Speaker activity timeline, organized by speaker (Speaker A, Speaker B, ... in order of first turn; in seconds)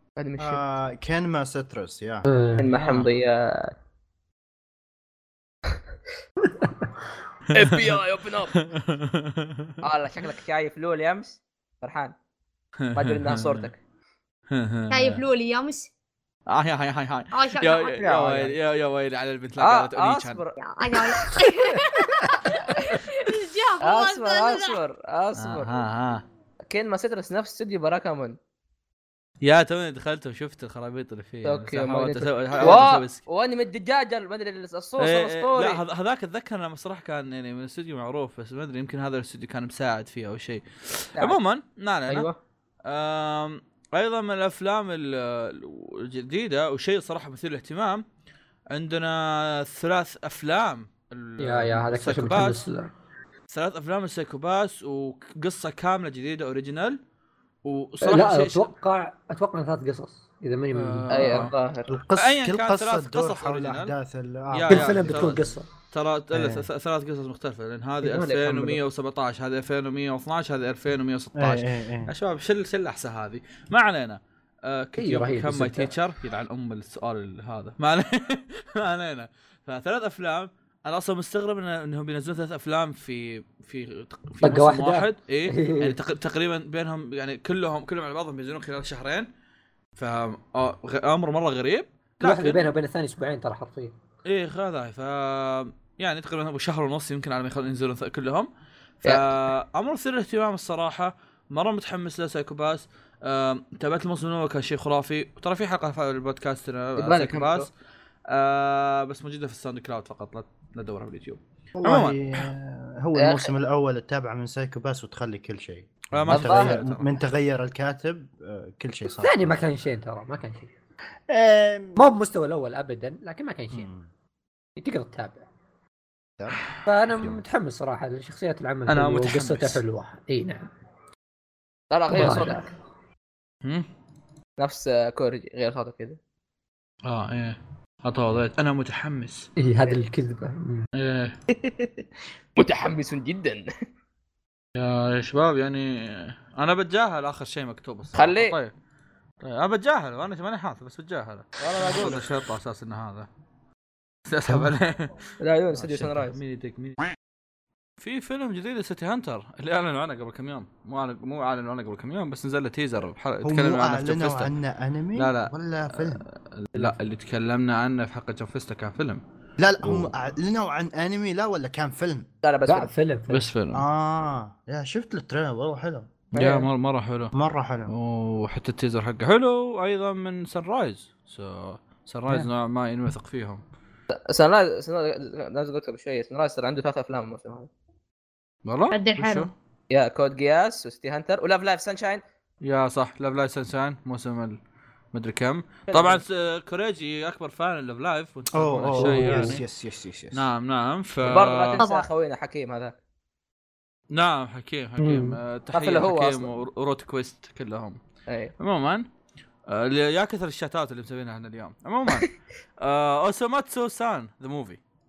Speaker A: 0.2-0.6, 2.6-3.7, 7.5-8.6, 9.8-12.1, 12.9-13.8, 18.0-18.5, 19.6-20.6, 22.5-23.0, 23.8-25.7, 26.7-28.4, 31.4-35.8, 42.1-42.4, 61.1-61.9, 99.0-99.4, 107.0-107.7, 113.1-113.5, 116.3-116.8, 131.9-132.7, 134.6-136.2, 142.6-143.7, 148.1-148.6, 151.6-152.3, 155.4-156.4, 172.4-172.9, 176.3-176.7, 184.1-187.7, 189.9-192.2, 195.9-196.2, 201.2-202.9, 205.7-206.5, 208.3-208.5
Speaker B: 0.4-2.2, 32.6-32.9, 61.9-65.4, 66.3-66.7, 71.3-72.1, 111.8-119.5, 121.3-122.0, 123.7-124.0, 127.1-127.4, 163.4-166.2, 169.6-172.3, 173.7-176.2, 177.3-177.9, 198.5-200.5
Speaker C: 2.3-2.7, 6.5-6.9, 51.4-52.9, 58.0-61.5, 64.7-65.7, 68.0-68.8, 75.0-75.9, 84.4-86.0, 92.2-93.9, 119.2-120.7, 122.0-123.9, 124.8-125.5, 126.8-130.7, 132.1-132.6, 139.6-140.9, 172.7-173.5, 198.9-199.6, 205.0-205.4
Speaker D: 2.8-3.1, 7.6-8.0, 8.5-9.7, 12.8-13.7, 14.5-15.2, 16.5-20.4, 25.4-26.2, 29.4-33.2, 35.0-42.3, 42.9-48.0, 48.7-52.6, 53.5-57.0, 57.6-58.7, 60.7-61.5, 62.1-63.9, 64.5-89.3, 90.0-92.7, 94.2-98.5, 99.0-107.7, 108.3-112.5, 116.1-117.2, 128.9-129.8, 137.1-139.5, 140.9-141.3, 144.8-148.7, 149.4-153.3, 154.3-155.1, 155.7-157.0, 158.0-164.5, 165.1-169.2, 173.3-173.8, 176.3-177.3, 177.9-183.6, 188.7-189.5, 192.6-194.6, 195.1-199.6, 200.3-201.8, 204.1-208.0, 208.6-209.1, 209.7-214.8
Speaker E: 14.9-15.9, 17.3-18.0, 20.6-24.8, 188.9-189.5, 201.8-202.0